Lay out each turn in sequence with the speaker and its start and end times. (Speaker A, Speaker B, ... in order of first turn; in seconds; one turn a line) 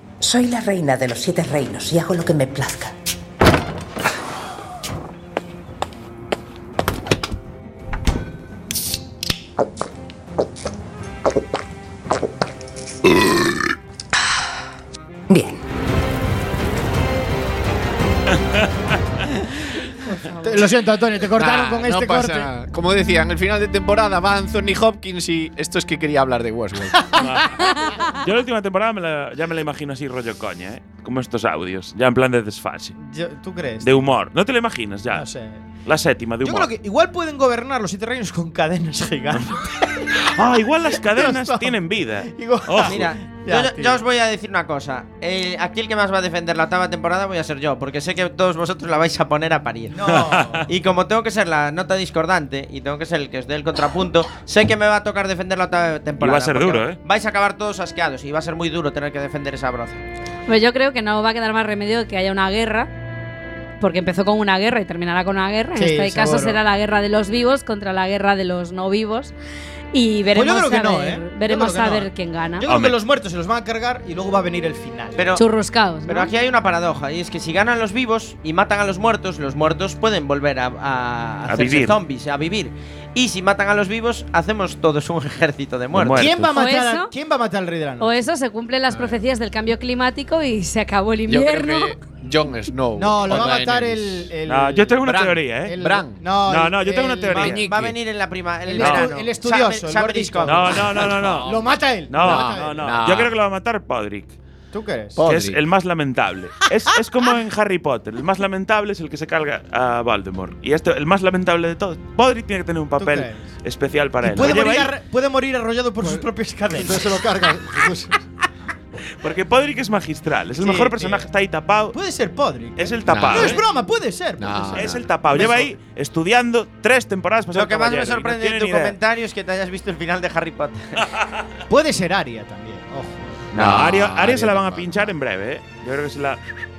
Speaker A: 0.2-2.9
Speaker A: 15.3-15.6
Speaker B: 20.3-22.5
Speaker C: 21.3-27.2
Speaker D: 27.2-33.0
Speaker E: 27.8-28.0
Speaker B: 33.0-34.0
Speaker D: 33.8-35.3
Speaker B: 35.1-35.6
Speaker D: 35.9-36.7
Speaker B: 36.4-40.2
Speaker D: 39.3-39.6
Speaker D: 40.1-43.0
Speaker B: 40.9-44.0
Speaker F: 42.8-50.1
Speaker B: 49.9-50.7
Speaker D: 50.1-50.7
Speaker F: 50.7-60.0
Speaker D: 56.2-57.0
Speaker E: 60.5-62.9
Speaker E: 63.8-69.3
Speaker B: 65.8-66.6
Speaker E: 69.9-72.7
Speaker B: 70.3-75.3
Speaker D: 72.7-73.0
Speaker F: 75.2-75.4
Speaker E: 75.4-76.3
Speaker F: 76.1-86.3
Speaker D: 81.5-82.0
Speaker D: 85.9-86.4
Speaker C: 86.0-86.5
Speaker B: 86.1-88.1
Speaker E: 86.5-87.1
Speaker E: 88.0-92.0
Speaker C: 88.9-89.2
Speaker C: 91.3-94.3
Speaker B: 93.0-97.6
Speaker D: 94.5-95.7
Speaker C: 95.0-96.2
Speaker D: 96.5-97.7
Speaker C: 97.4-98.0
Speaker F: 97.5-101.1
Speaker B: 98.7-103.0
Speaker D: 98.8-99.1
Speaker D: 100.5-101.6
Speaker C: 101.0-101.6
Speaker D: 102.1-104.3
Speaker C: 102.1-103.3
Speaker B: 104.7-105.2
Speaker C: 105.2-105.6
Speaker D: 105.2-114.9
Speaker B: 113.0-113.4
Speaker B: 114.2-117.9
Speaker G: 116.0-118.2
Speaker D: 119.2-122.0
Speaker B: 120.6-121.3
Speaker B: 121.9-125.7
Speaker D: 122.8-123.6
Speaker C: 123.1-123.6
Speaker C: 124.4-125.0
Speaker D: 124.8-129.0
Speaker F: 127.5-131.0
Speaker B: 131.7-133.2
Speaker D: 133.5-136.6
Speaker C: 133.6-135.1